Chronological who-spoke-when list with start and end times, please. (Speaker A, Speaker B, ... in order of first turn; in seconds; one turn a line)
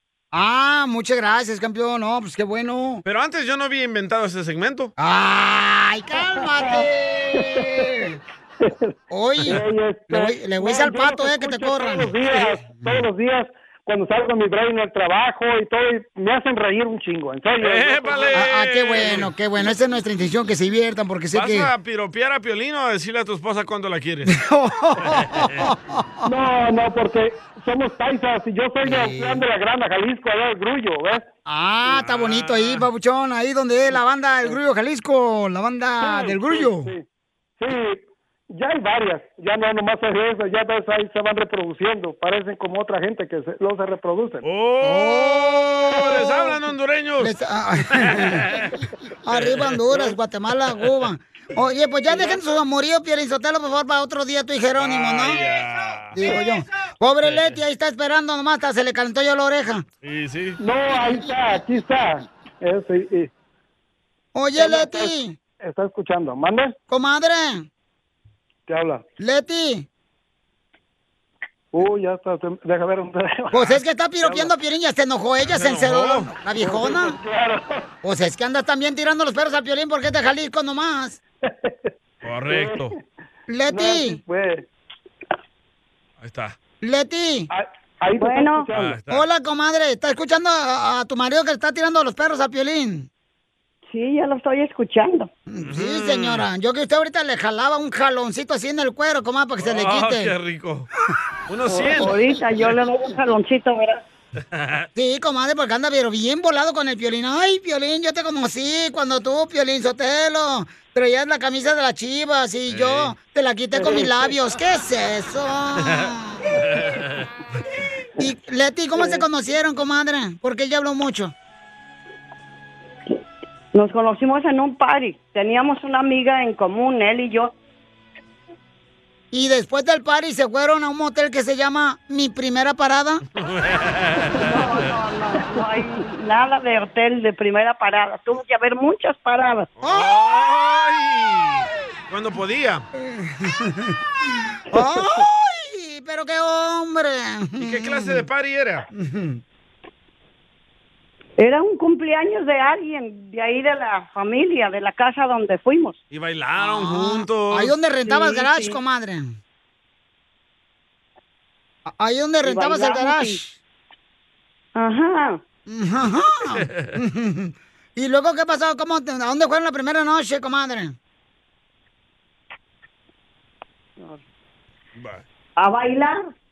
Speaker A: 0.3-3.0
Speaker B: 3.0-4.9
Speaker A: 5.0-8.2
Speaker C: 6.6-6.8
Speaker C: 7.4-8.1
Speaker C: 8.6-18.3
Speaker A: 9.1-13.0
Speaker B: 17.6-19.3
Speaker A: 18.3-21.7
Speaker B: 21.3-24.4
Speaker A: 24.3-26.3
Speaker B: 25.0-25.7
Speaker C: 26.2-31.2
Speaker A: 28.8-29.4
Speaker A: 31.4-36.9
Speaker B: 31.9-32.8
Speaker C: 36.0-37.0
Speaker C: 37.6-44.4
Speaker B: 44.4-47.3
Speaker A: 44.8-46.5
Speaker A: 47.2-48.5
Speaker B: 47.9-48.7
Speaker A: 49.2-55.4
Speaker B: 49.3-50.1
Speaker B: 54.8-56.4
Speaker A: 56.1-59.8
Speaker B: 57.2-57.5
Speaker B: 60.0-60.6
Speaker C: 60.6-63.3
Speaker A: 64.3-65.3
Speaker C: 64.6-66.8
Speaker A: 66.9-67.7
Speaker C: 68.7-69.0
Speaker A: 69.2-69.8
Speaker C: 71.7-74.5
Speaker A: 73.5-77.2
Speaker B: 75.4-76.4
Speaker C: 76.6-77.8
Speaker A: 78.0-81.2
Speaker C: 81.4-81.9
Speaker B: 82.2-82.9
Speaker C: 82.5-82.9
Speaker A: 83.5-84.2
Speaker C: 83.7-84.6
Speaker B: 86.2-86.5
Speaker A: 86.8-87.5
Speaker C: 87.5-89.0
Speaker D: 88.2-88.6
Speaker B: 88.7-89.2
Speaker A: 89.1-93.1
Speaker D: 93.9-95.3
Speaker A: 95.5-100.3
Speaker B: 95.7-96.5
Speaker B: 99.6-100.9
Speaker B: 101.5-102.2
Speaker D: 101.7-104.0
Speaker B: 104.5-104.9
Speaker A: 105.0-116.6
Speaker B: 112.7-113.1
Speaker B: 115.8-116.1
Speaker B: 116.7-117.1
Speaker A: 118.2-121.3
Speaker D: 123.7-127.5
Speaker A: 129.3-133.2
Speaker B: 133.5-134.4
Speaker D: 134.5-139.7
Speaker B: 139.8-142.8
Speaker A: 139.8-140.2
Speaker A: 143.0-144.0
Speaker A: 144.7-148.2
Speaker C: 144.7-145.2
Speaker B: 147.6-148.9
Speaker A: 148.9-149.4
Speaker D: 151.4-155.9
Speaker B: 156.1-157.7
Speaker A: 156.6-159.3
Speaker D: 158.1-158.7
Speaker A: 161.9-163.6
Speaker D: 162.4-163.4
Speaker D: 164.8-165.4
Speaker A: 165.7-170.9
Speaker B: 166.6-166.9
Speaker B: 175.0-175.2
Speaker D: 175.6-176.2